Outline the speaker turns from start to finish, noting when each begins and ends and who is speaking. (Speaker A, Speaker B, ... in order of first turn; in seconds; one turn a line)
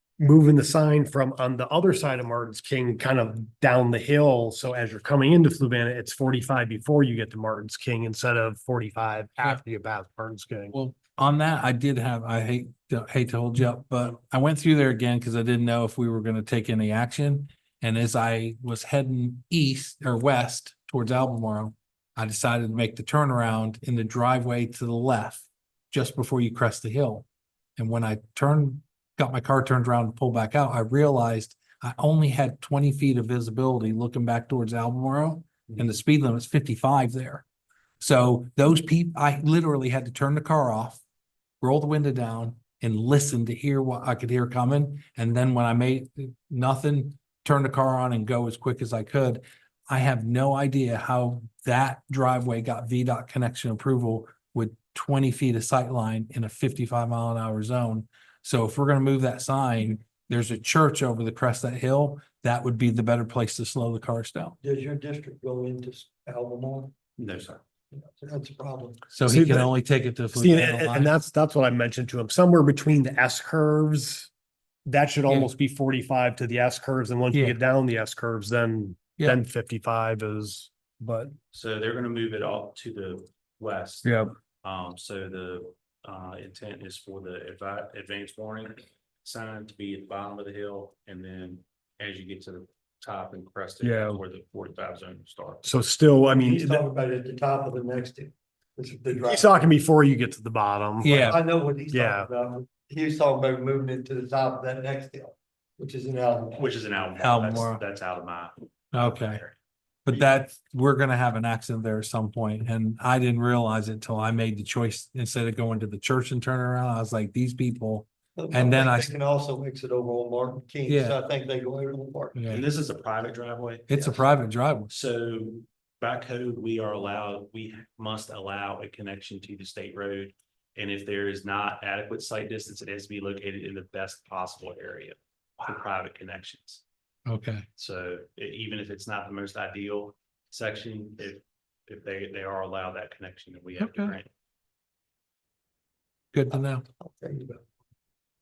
Speaker A: 0.2-10.7
Speaker B: 10.7-27.3
Speaker B: 27.8-37.4
Speaker B: 38.0-41.0
Speaker B: 41.6-64.6
Speaker C: 64.6-66.9
Speaker D: 67.2-67.6
Speaker C: 67.9-69.0
Speaker B: 69.1-71.1
Speaker A: 69.3-69.7
Speaker A: 70.3-74.3
Speaker A: 74.9-81.3
Speaker B: 77.3-77.6
Speaker D: 81.5-95.8
Speaker A: 84.0-84.3
Speaker A: 93.8-94.2
Speaker A: 95.7-96.8
Speaker C: 96.3-99.5
Speaker A: 99.2-101.1
Speaker B: 101.0-101.5
Speaker C: 101.1-106.6
Speaker A: 101.9-102.3
Speaker D: 106.6-109.5
Speaker B: 107.2-107.8
Speaker B: 108.9-109.4
Speaker B: 110.1-119.1
Speaker C: 118.4-122.4
Speaker B: 120.9-121.2
Speaker B: 122.3-122.6
Speaker D: 122.5-123.9
Speaker B: 123.9-124.9
Speaker C: 123.9-124.2
Speaker D: 124.9-136.8
Speaker B: 137.3-137.7
Speaker D: 137.8-144.3
Speaker B: 143.8-144.2
Speaker B: 146.3-146.8
Speaker C: 146.5-147.6